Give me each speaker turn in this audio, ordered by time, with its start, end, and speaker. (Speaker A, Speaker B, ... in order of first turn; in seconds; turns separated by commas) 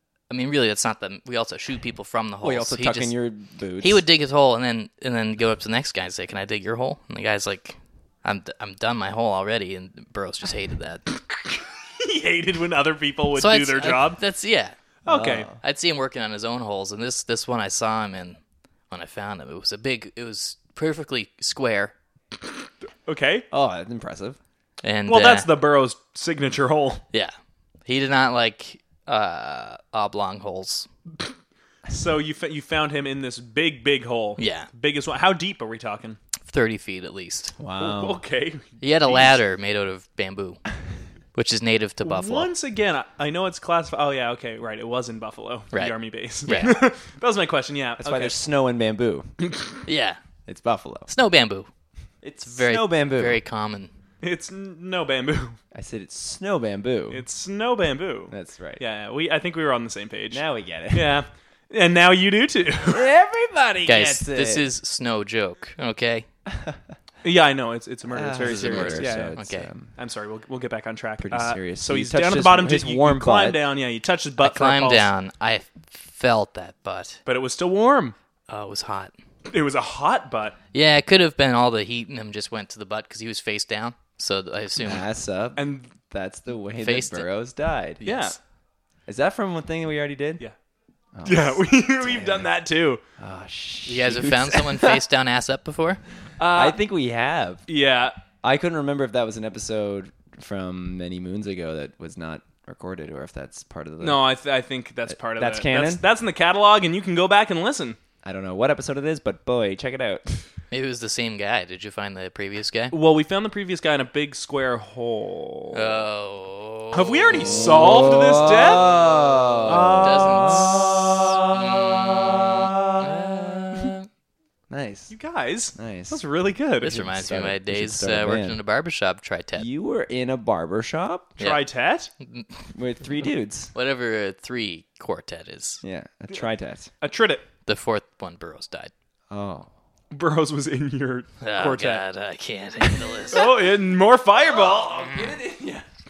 Speaker A: 0.3-3.1, Speaker B: 2.4-4.0, Speaker A: 3.8-11.2, Speaker C: 12.0-14.2, Speaker A: 13.3-14.8, Speaker C: 15.1-15.5, Speaker B: 15.1-15.6, Speaker A: 15.5-18.4, Speaker A: 18.9-21.9, Speaker C: 23.1-23.4, Speaker B: 23.5-24.4, Speaker A: 24.8-25.5, Speaker C: 25.1-27.0, Speaker A: 27.9-30.9, Speaker C: 31.9-36.2, Speaker A: 34.4-34.7, Speaker A: 36.5-37.5, Speaker B: 37.6-38.2, Speaker C: 37.8-39.3, Speaker A: 38.8-40.6, Speaker A: 41.3-42.5, Speaker C: 42.0-48.3, Speaker A: 45.7-46.8, Speaker B: 48.0-49.3, Speaker A: 49.9-50.2, Speaker B: 50.5-51.1, Speaker A: 51.1-51.7, Speaker B: 52.2-53.4, Speaker A: 52.4-53.9, Speaker C: 54.2-55.6, Speaker B: 55.7-57.2, Speaker C: 57.1-63.1, Speaker B: 58.3-58.8, Speaker B: 60.3-61.2, Speaker B: 62.9-64.7, Speaker A: 63.9-66.2, Speaker B: 66.5-66.8, Speaker C: 67.2-69.3, Speaker B: 68.0-69.9, Speaker A: 68.4-69.7, Speaker C: 70.0-75.1, Speaker B: 71.2-73.6, Speaker A: 74.4-77.2, Speaker C: 77.2-78.1, Speaker A: 78.5-79.1, Speaker C: 79.5-80.5, Speaker A: 80.7-85.0, Speaker B: 84.8-88.0, Speaker C: 85.5-85.9, Speaker A: 86.8-87.3, Speaker A: 88.0-88.3, Speaker C: 88.0-88.4, Speaker B: 89.1-90.4, Speaker B: 91.1-92.5, Speaker C: 91.2-93.0, Speaker B: 93.2-95.0, Speaker A: 93.8-96.0, Speaker C: 96.4-96.8, Speaker B: 96.5-97.6, Speaker C: 97.7-98.2, Speaker B: 98.4-104.2, Speaker C: 104.0-108.0, Speaker B: 105.1-106.0, Speaker B: 108.2-110.4, Speaker A: 110.7-112.9, Speaker C: 112.9-116.0, Speaker A: 115.7-117.6, Speaker C: 116.9-118.9, Speaker B: 117.3-123.5, Speaker C: 119.6-120.9, Speaker A: 119.7-124.1, Speaker B: 124.7-125.1, Speaker C: 125.1-127.0, Speaker B: 125.7-126.2, Speaker A: 126.8-129.7, Speaker B: 126.8-128.6, Speaker B: 129.6-131.4, Speaker C: 131.4-132.1, Speaker A: 132.2-132.5, Speaker B: 132.7-133.7, Speaker A: 133.7-135.8, Speaker B: 135.8-136.9, Speaker C: 137.0-137.4, Speaker A: 137.7-138.9, Speaker B: 139.3-139.7, Speaker C: 140.1-142.0, Speaker A: 141.4-143.5, Speaker C: 143.3-145.1, Speaker B: 144.5-145.8